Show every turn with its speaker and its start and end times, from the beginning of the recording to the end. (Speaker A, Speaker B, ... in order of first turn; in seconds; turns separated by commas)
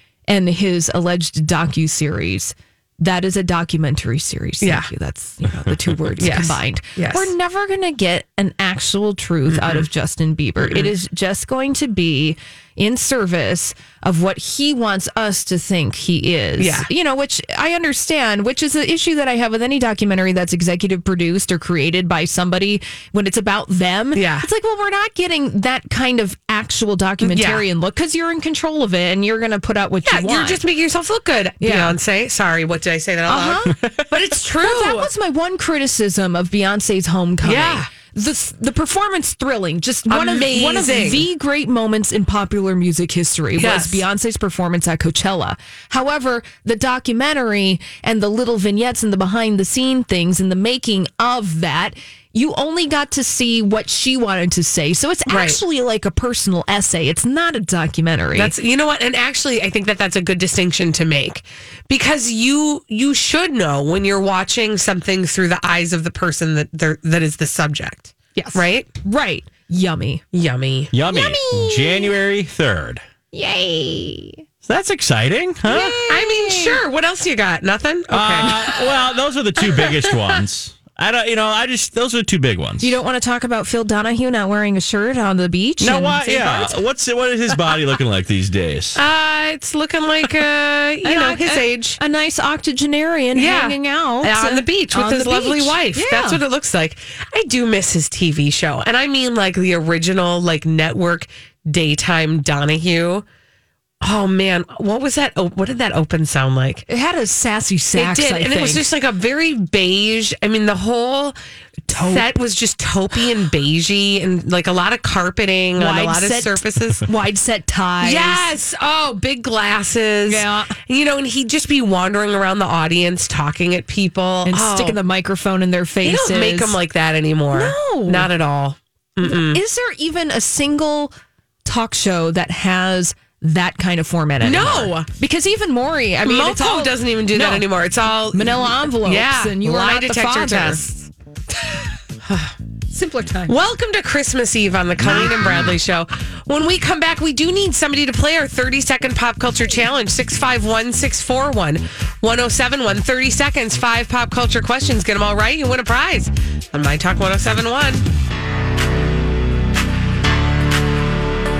Speaker A: 0.3-30.6, Speaker B: 4.6-4.9, Speaker B: 6.2-7.3, Speaker B: 9.5-9.8, Speaker B: 10.6-10.9, Speaker B: 16.6-16.9, Speaker B: 24.1-24.4, Speaker B: 27.2-27.6, Speaker B: 30.0-35.1, Speaker A: 31.6-32.0, Speaker A: 33.3-33.8, Speaker A: 34.6-58.5, Speaker B: 37.4-37.9, Speaker B: 40.1-41.3, Speaker B: 43.6-44.0, Speaker B: 55.3-55.6, Speaker B: 58.3-68.9, Speaker A: 68.3-70.2, Speaker B: 70.3-70.9, Speaker C: 70.9-73.0, Speaker A: 71.1-72.1, Speaker A: 73.3-74.4, Speaker C: 74.6-76.0, Speaker A: 75.7-76.8, Speaker B: 76.0-78.8, Speaker C: 78.1-83.0, Speaker B: 79.8-80.3, Speaker A: 82.8-86.8, Speaker C: 85.8-89.0, Speaker B: 89.0-92.0, Speaker A: 91.0-96.4, Speaker B: 93.3-103.2, Speaker B: 104.0-106.8, Speaker A: 106.9-108.8, Speaker B: 107.9-111.4, Speaker A: 111.9-112.3, Speaker B: 111.9-117.0, Speaker A: 115.8-118.5, Speaker B: 118.0-125.0, Speaker A: 120.3-120.8, Speaker A: 124.5-126.8, Speaker B: 126.0-129.6, Speaker A: 127.5-128.3, Speaker A: 129.2-131.1, Speaker A: 131.6-137.7, Speaker B: 134.4-135.1, Speaker B: 136.2-141.1, Speaker A: 138.3-140.8, Speaker B: 142.2-142.5, Speaker A: 142.9-143.6, Speaker B: 143.5-158.0